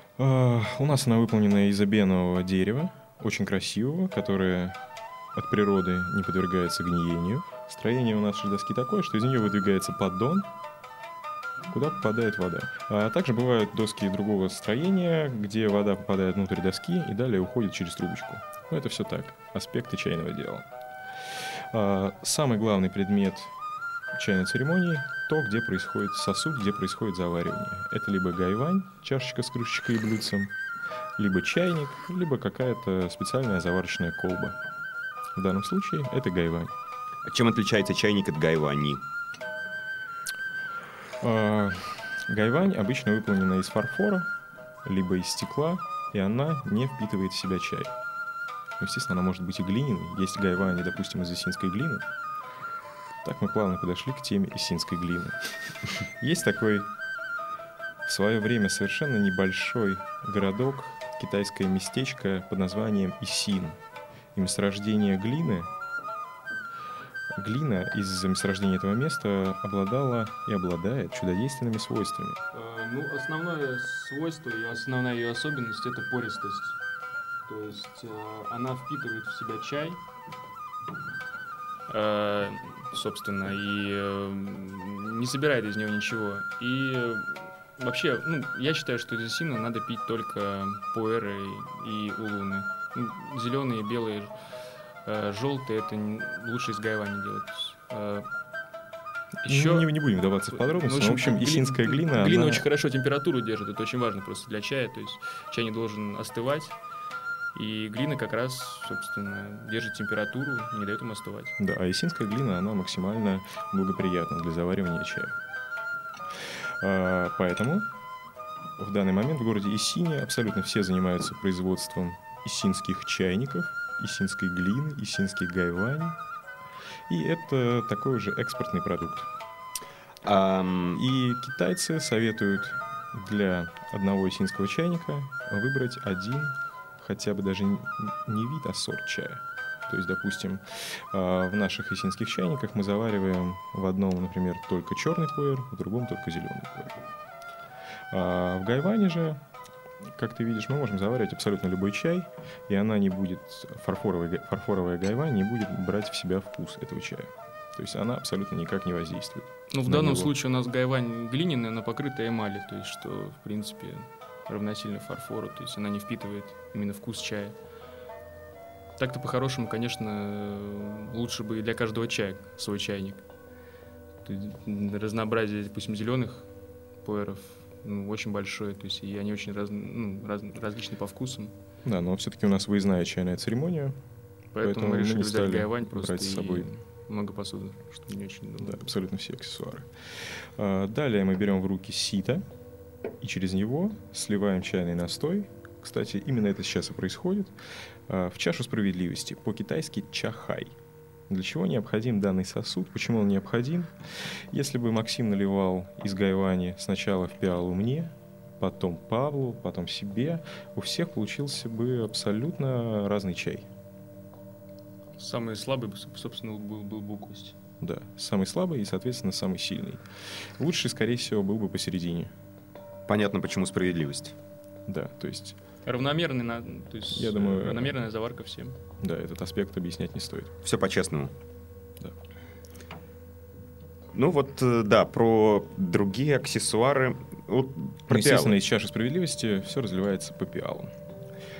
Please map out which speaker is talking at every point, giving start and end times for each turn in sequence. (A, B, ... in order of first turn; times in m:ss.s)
0:00.2-0:04.8 A
0:05.3-0:10.5 A
0:11.7-0:20.7 A
0:21.7-0:23.5 A
0:24.1-0:30.5 A
0:31.2-0:34.6 A
0:35.3-0:36.7 A
0:37.2-0:39.0 B
0:41.2-0:44.3 A
0:44.8-0:47.9 A
0:48.8-0:52.1 A
0:53.2-0:55.4 A
0:56.2-0:56.9 A
0:58.0-1:03.8 A
1:04.3-1:05.7 A
1:07.3-1:12.4 A
1:12.5-1:16.8 C
1:17.5-1:20.0 C
1:21.9-1:34.3 C
1:35.0-1:38.3 C
1:39.4-1:39.9 C
1:39.5-1:42.6 A
1:40.5-1:46.8 C
1:47.5-1:51.6 C
1:51.6-1:55.4 A
1:56.6-1:57.9 A
1:58.8-2:06.2 A
2:07.1-2:09.3 A
2:10.2-2:11.0 B
2:11.0-2:27.0 A
2:28.1-2:29.4 A
2:30.0-2:40.3 A
2:39.7-2:47.6 C
2:49.0-2:53.2 C
2:54.2-2:56.5 C
2:57.0-3:01.5 C
3:01.8-3:04.0 A
3:04.5-3:08.8 C
3:04.6-3:06.7 A
3:08.6-3:12.4 A
3:13.2-3:17.5 A
3:18.1-3:20.7 A
3:21.3-3:23.9 A
3:24.5-3:33.7 A
3:35.2-3:37.6 C
3:37.8-3:40.0 A
3:40.6-3:42.3 A
3:43.1-3:44.3 B
3:44.9-3:45.6 A
3:45.8-3:48.8 C
3:47.1-3:48.0 A
3:49.0-3:50.5 A
3:50.6-3:51.3 B
3:54.1-3:58.5 B
3:58.1-4:00.9 A